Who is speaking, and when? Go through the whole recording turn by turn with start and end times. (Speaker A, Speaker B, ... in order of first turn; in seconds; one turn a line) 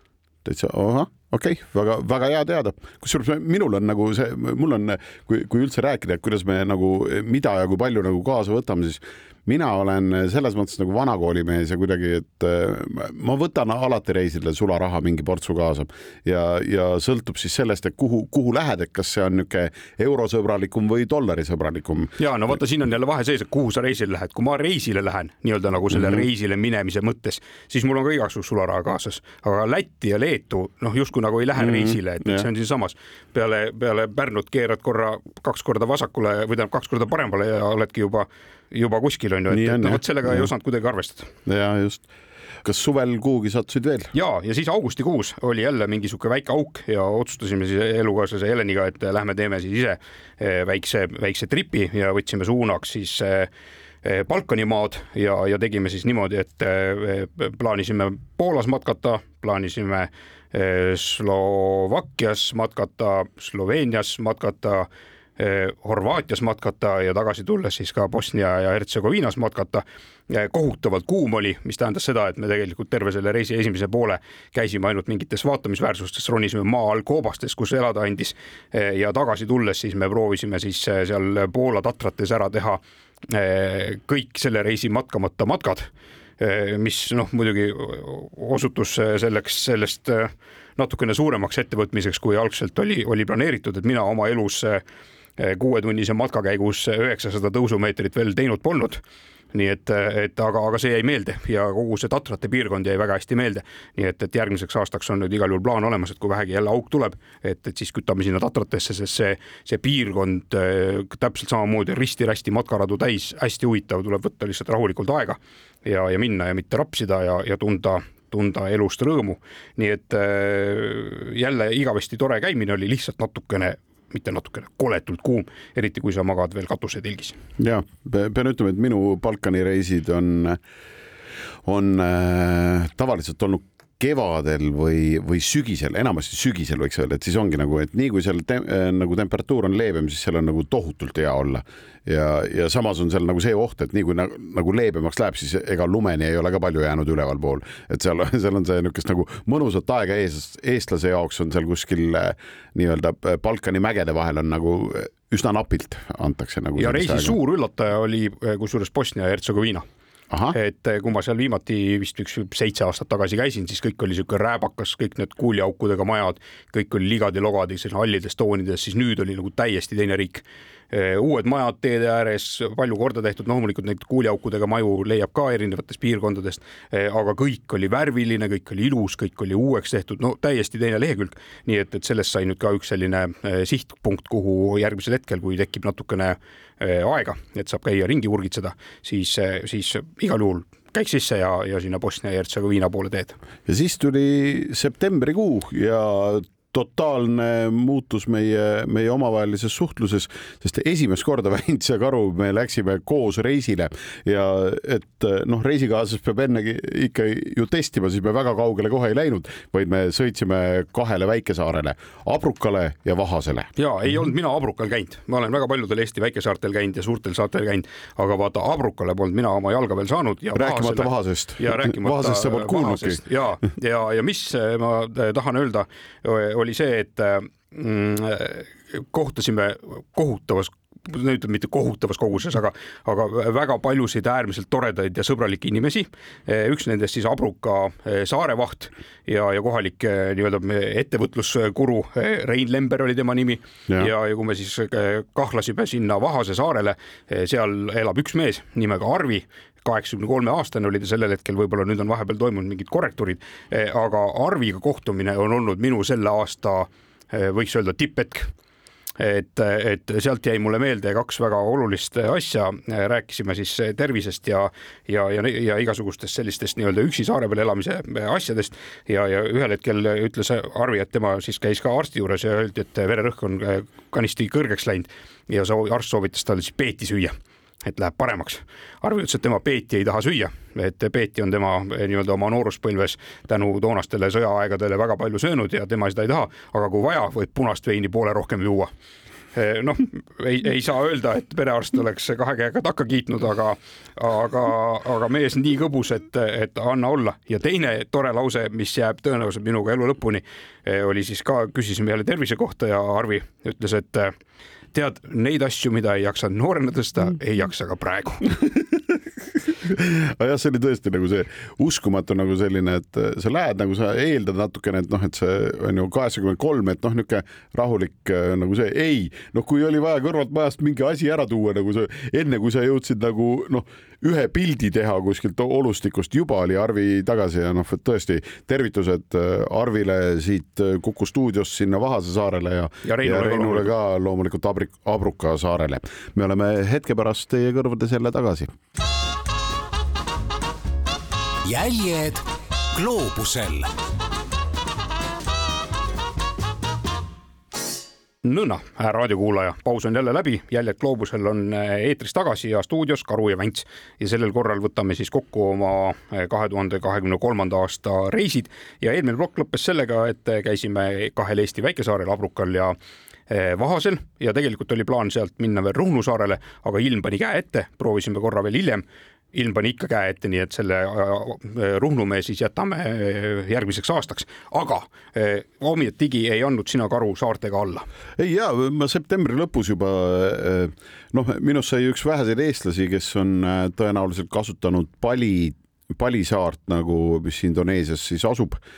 Speaker A: 0.4-22.2
Speaker B: 22.2-41.3
Speaker A: 25.9-26.2
Speaker A: 31.6-32.5
Speaker A: 39.5-40.5
Speaker A: 41.5-42.1
Speaker A: 42.6-44.1
Speaker B: 44.1-53.5
Speaker B: 54.0-94.8
Speaker B: 95.4-99.0
Speaker B: 99.5-127.4
Speaker A: 127.6-130.6
Speaker A: 131.7-157.4
Speaker B: 156.8-159.8
Speaker B: 160.5-193.4
Speaker A: 193.7-213.7
Speaker B: 213.8-258.5
Speaker A: 220.6-223.2
Speaker B: 259.2-288.9
Speaker B: 289.6-304.3
Speaker B: 304.9-308.5
Speaker A: 309.1-338.7
Speaker B: 333.0-333.9
Speaker C: 341.6-343.9
Speaker B: 348.4-363.0
Speaker B: 363.5-378.1
Speaker A: 378.4-388.8